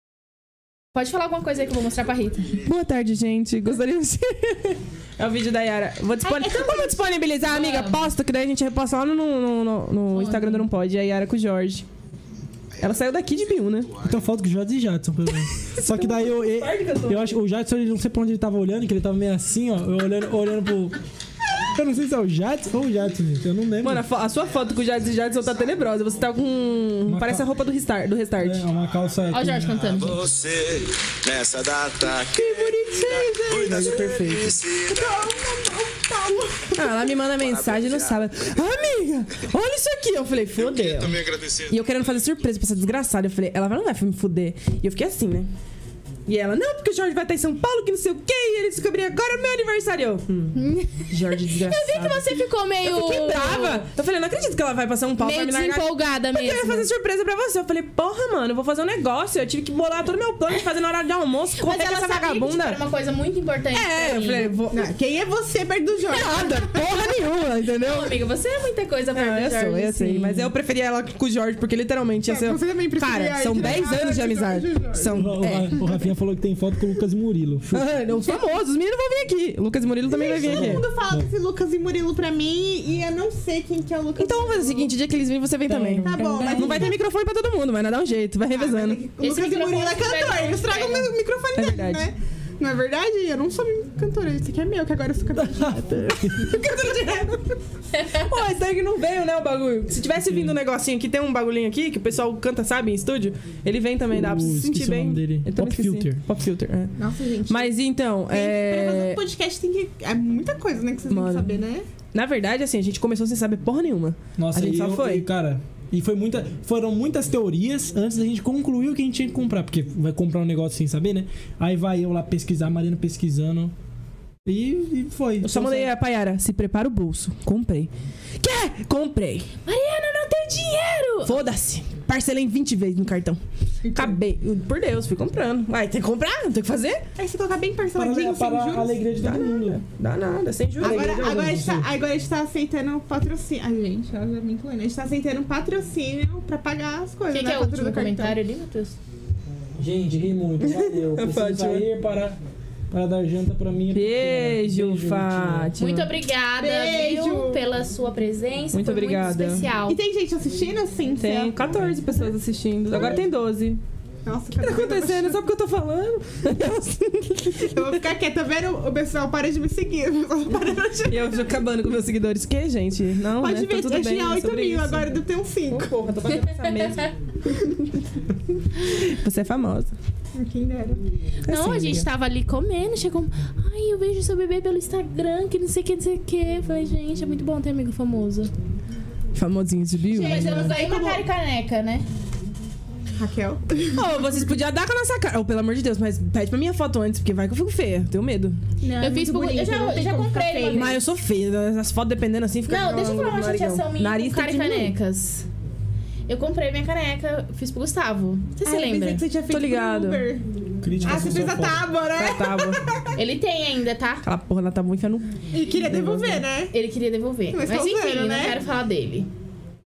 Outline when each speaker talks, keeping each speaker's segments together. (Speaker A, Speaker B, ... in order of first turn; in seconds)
Speaker A: 0.9-2.5, 7.4-8.1, 10.1-10.7, 29.3-30.2, 50.5-53.8, 55.2-56.9, 61.6-64.5, 67.8-70.4, 86.0-86.8, 89.2-91.1, 97.9-98.3, 129.7-131.4, 147.3-148.9, 155.8-160.0, 181.5-188.5, 190.1-192.1, 199.0-201.0, 202.7-205.5, 206.3-209.2, 213.2-214.2, 216.7-219.3
Speaker B: 2.6-11.9, 12.8-13.9, 15.8-17.4, 23.8-28.6, 32.3-34.6, 36.7-45.5, 46.2-52.3, 52.8-62.8, 63.7-64.9, 66.1-68.2, 69.1-75.8, 77.7-80.8, 84.2-89.0, 91.5-92.1, 96.3-96.9, 98.1-106.9, 107.5-109.2, 111.1-111.6, 112.1-115.2, 125.4-129.5, 131.2-133.4, 133.9-137.0, 139.2-141.2, 150.6-151.8, 153.9-156.1, 158.7-159.7, 161.2-163.8, 164.6-167.8, 171.1-175.1, 175.7-177.7, 178.8-179.9, 181.4-182.1, 189.3-190.7, 193.9-198.6, 200.7-204.9, 209.5-210.3, 212.2-212.8, 214.2-216.4
Speaker C: 6.2-7.1, 34.8-37.0, 64.7-66.8, 72.3-75.2, 80.1-84.9, 85.9-86.9, 88.5-97.6, 107.0-107.7, 108.3-111.8, 133.8-134.2, 137.2-139.0, 140.8-148.4, 156.6-157.6, 159.8-161.6, 164.2-165.4, 167.6-171.5, 173.4-176.0, 180.3-181.0, 190.1-191.2, 193.2-194.4, 198.8-201.0, 208.6-210.4, 211.0-213.1, 215.5-216.7, 217.5-218.6
Speaker D: 14.0-21.0, 21.6-24.0, 27.1-27.5, 28.4-30.1, 75.1-77.9, 80.4-81.3, 85.7-86.6, 95.4-96.5, 104.1-106.2, 114.4-123.7, 124.4-125.9, 137.9-139.8, 140.8-141.9, 149.8-152.4, 152.9-155.7, 210.8-211.8
Speaker E: 30.1-35.2, 37.3-38.3, 40.7-41.6